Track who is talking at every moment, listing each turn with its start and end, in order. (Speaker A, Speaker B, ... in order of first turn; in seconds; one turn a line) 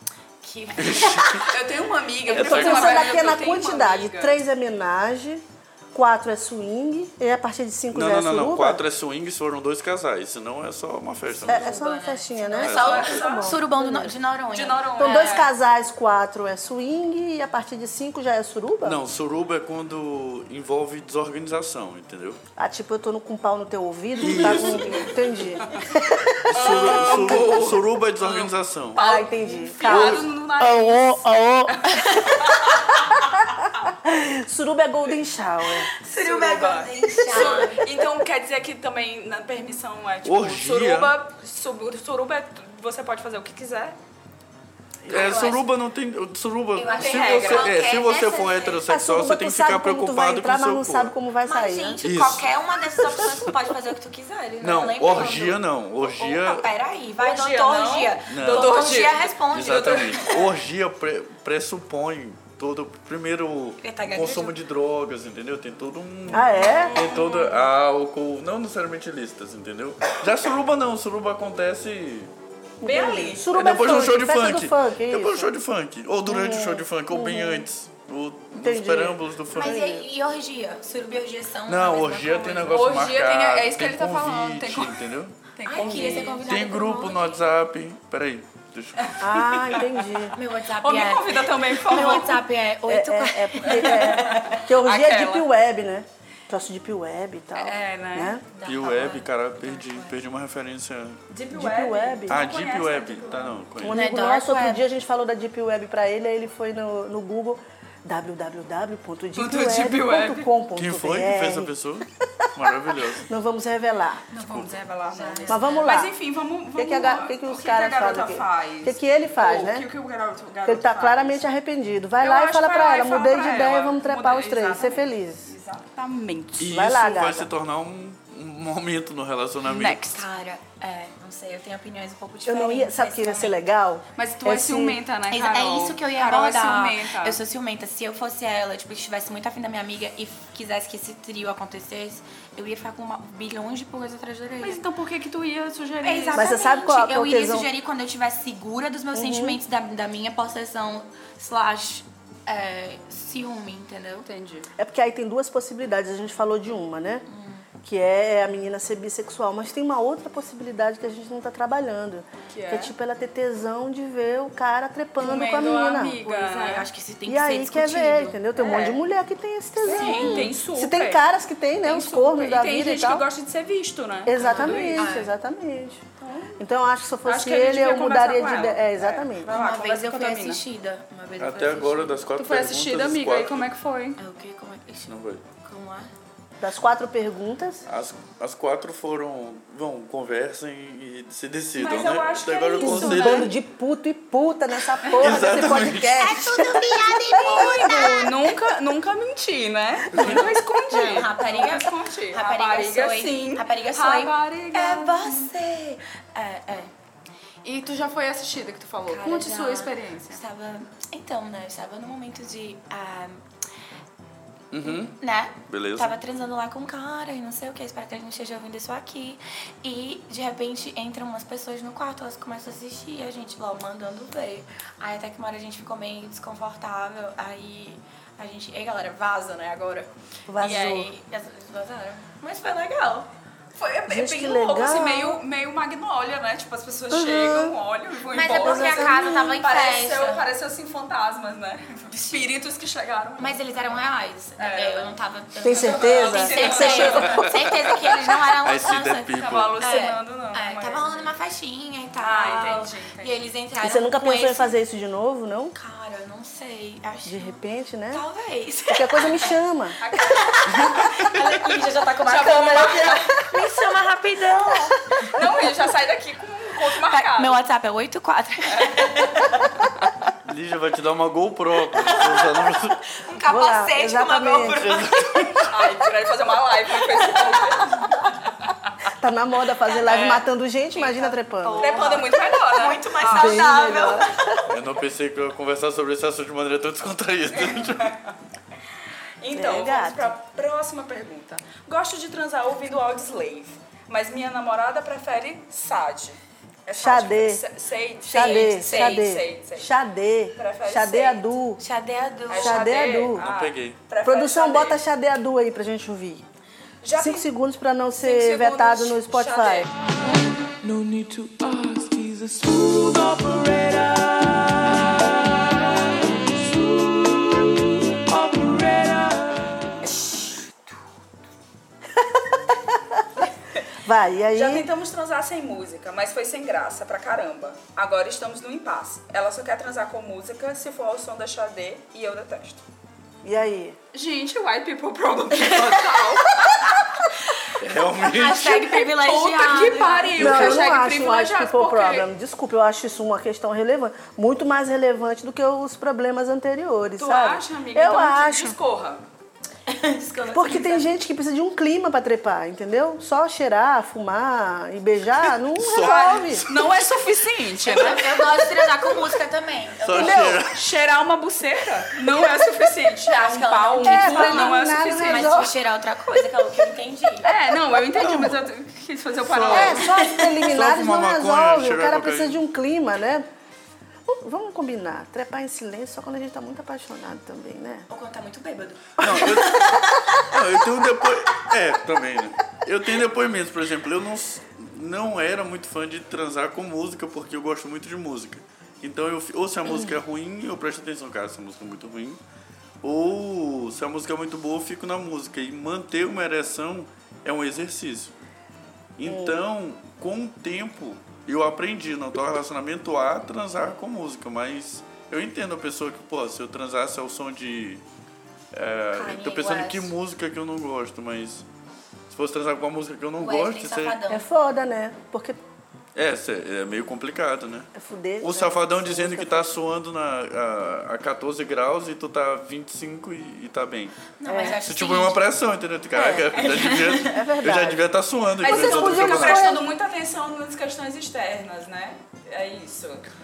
Speaker A: 0.4-1.5
Speaker B: 0.7-1.5
Speaker C: 1.4-4.4
Speaker B: 2.3-3.0
Speaker D: 2.3-8.8
Speaker B: 7.9-11.7
Speaker A: 11.4-15.4
Speaker D: 11.4-14.1
Speaker B: 12.6-13.2
Speaker C: 12.6-13.7
Speaker C: 14.5-15.5
Speaker D: 15.0-19.0
Speaker B: 18.8-22.4
Speaker D: 22.6-27.6
Speaker B: 24.2-25.2
Speaker C: 24.4-25.9
Speaker B: 26.4-29.0
Speaker C: 26.5-33.4
Speaker D: 28.9-30.2
Speaker B: 29.8-30.2
Speaker A: 32.1-32.3
Speaker D: 33.6-35.9
Speaker A: 36.0-37.9
Speaker C: 36.1-44.0
Speaker B: 40.2-41.1
Speaker B: 45.0-51.1
Speaker A: 45.1-45.6
Speaker C: 45.1-45.5
Speaker A: 46.7-48.8
Speaker C: 46.9-47.8
Speaker D: 48.9-52.0
Speaker A: 51.5-60.2
Speaker B: 52.0-53.5
Speaker B: 54.6-56.6
Speaker C: 57.1-60.5
Speaker B: 58.3-59.0
Speaker B: 59.5-72.3
Speaker A: 63.8-64.5
Speaker D: 66.3-67.0
Speaker C: 66.6-67.7
Speaker D: 72.8-75.5
Speaker C: 72.8-73.5
Speaker B: 73.5-79.8
Speaker D: 76.2-77.7
Speaker D: 78.6-80.0
Speaker A: 79.5-83.0
Speaker B: 81.7-85.3
Speaker C: 82.7-86.4
Speaker A: 85.6-87.4
Speaker D: 85.8-86.2
Speaker B: 86.4-89.1
Speaker C: 89.0-89.9
Speaker D: 89.2-90.4
Speaker A: 90.3-94.6
Speaker C: 90.8-92.4
Speaker D: 91.9-98.4
Speaker C: 93.6-95.5
Speaker C: 97.5-98.4
Speaker A: 98.5-100.2
Speaker B: 98.6-101.2
Speaker C: 101.3-103.7
Speaker D: 101.5-102.4
Speaker B: 102.3-104.0
Speaker D: 103.8-114.4
Speaker A: 103.8-104.8
Speaker C: 109.3-110.5
Speaker B: 110.8-113.2
Speaker C: 114.3-121.5
Speaker A: 115.1-115.9
Speaker D: 115.5-116.1
Speaker D: 116.8-119.9
Speaker D: 120.7-125.5
Speaker C: 122.2-126.7
Speaker B: 126.6-130.0
Speaker D: 126.6-127.5
Speaker C: 129.6-130.2
Speaker A: 129.8-133.6
Speaker D: 132.5-135.0
Speaker C: 134.2-137.4
Speaker A: 135.3-144.8
Speaker C: 144.6-146.6
Speaker A: 146.0-154.3
Speaker D: 146.3-147.7
Speaker D: 149.1-149.6
Speaker C: 154.2-154.7
Speaker D: 154.8-157.2
Speaker A: 157.3-157.6
Speaker D: 157.8-166.3
Speaker C: 162.5-162.9
Speaker C: 165.2-166.9
Speaker A: 166.3-168.4
Speaker D: 167.3-173.3
Speaker C: 168.6-169.0
Speaker C: 169.8-171.2
Speaker A: 169.8-170.5
Speaker C: 171.8-175.1
Speaker D: 174.2-176.0
Speaker A: 174.3-175.3
Speaker C: 176.2-176.6
Speaker D: 176.6-179.6
Speaker C: 177.2-180.6
Speaker A: 179.5-182.3
Speaker B: 181.4-183.7
Speaker C: 182.3-184.2
Speaker A: 184.2-186.1
Speaker B: 185.1-185.4
Speaker D: 186.6-187.9
Speaker B: 187.9-193.5
Speaker C: 191.8-193.5
Speaker D: 192.8-198.3
Speaker C: 195.0-195.3
Speaker B: 195.2-196.2
Speaker A: 195.7-198.3
Speaker C: 197.4-205.5
Speaker B: 200.1-200.5
Speaker A: 200.9-206.9
Speaker C: 207.6-210.4
Speaker A: 209.1-213.4
Speaker B: 214.7-216.2
Speaker A: 214.8-233.3
Speaker D: 230.5-231.1
Speaker C: 233.7-243.9
Speaker D: 234.1-235.4
Speaker D: 237.1-237.8
Speaker A: 238.3-240.4
Speaker D: 238.6-239.4
Speaker A: 242.1-242.4
Speaker A: 243.4-254.7
Speaker C: 244.6-247.9
Speaker D: 245.6-247.4
Speaker B: 247.2-249.8
Speaker C: 249.3-251.3
Speaker C: 252.2-253.4
Speaker D: 253.8-255.7
Speaker A: 255.7-257.6
Speaker D: 257.2-258.2
Speaker A: 258.1-259.6
Speaker D: 258.9-260.0
Speaker C: 260.0-263.4
Speaker A: 260.2-265.3
Speaker C: 265.3-267.6
Speaker A: 267.0-269.7
Speaker C: 268.7-269.6
Speaker B: 270.4-273.0
Speaker A: 271.9-275.7
Speaker D: 273.4-275.0
Speaker B: 274.8-275.7
Speaker C: 275.7-278.9
Speaker A: 277.3-278.1
Speaker D: 279.1-282.1
Speaker A: 279.9-280.4
Speaker C: 280.1-280.4
Speaker A: 280.9-284.5
Speaker C: 281.8-283.7
Speaker D: 283.2-284.8
Speaker B: 284.7-288.1
Speaker C: 287.5-288.3
Speaker C: 289.4-299.9
Speaker D: 289.5-290.3
Speaker D: 296.9-297.6
Speaker D: 298.2-301.8
Speaker A: 298.3-299.3
Speaker C: 300.5-301.4
Speaker A: 301.8-302.9
Speaker C: 302.5-305.0
Speaker D: 302.5-303.4
Speaker B: 303.4-304.0
Speaker D: 304.2-306.4
Speaker C: 307.0-307.4
Speaker D: 307.1-309.9
Speaker C: 308.2-309.9
Speaker E: 310.2-319.7
Speaker D: 322.7-323.2
Speaker D: 324.0-324.9
Speaker C: 324.5-332.8
Speaker D: 333.4-334.0
Speaker C: 334.1-337.2
Speaker A: 335.6-336.2
Speaker A: 337.7-340.7
Speaker B: 337.8-338.7
Speaker C: 338.4-342.3
Speaker D: 340.4-348.8
Speaker C: 347.2-349.2
Speaker A: 349.9-351.1
Speaker D: 350.5-356.6
Speaker B: 355.4-357.0
Speaker C: 355.9-358.5
Speaker A: 357.8-360.4
Speaker B: 360.0-360.8
Speaker D: 360.2-360.6
Speaker C: 360.2-365.6
Speaker A: 363.3-367.5
Speaker D: 364.0-365.7
Speaker C: 367.4-370.1
Speaker B: 368.2-368.6
Speaker B: 369.4-370.0
Speaker D: 369.7-373.4
Speaker A: 369.9-370.6
Speaker B: 370.7-372.6
Speaker D: 374.3-378.1
Speaker A: 378.1-380.0
Speaker B: 379.2-392.4
Speaker D: 379.2-379.5
Speaker D: 389.9-390.2
Speaker B: 393.0-398.3
Speaker B: 399.2-408.0
Speaker D: 399.2-399.6
Speaker B: 408.7-411.6
Speaker A: 409.1-410.1
Speaker B: 412.3-414.2
Speaker A: 413.4-414.4
Speaker D: 414.3-415.6
Speaker B: 416.1-417.9
Speaker D: 417.9-419.7
Speaker B: 418.4-424.1
Speaker A: 424.4-425.4
Speaker D: 424.4-424.8
Speaker B: 424.8-429.7
Speaker D: 426.1-428.0
Speaker A: 426.6-427.2
Speaker C: 428.6-433.3
Speaker D: 428.6-429.8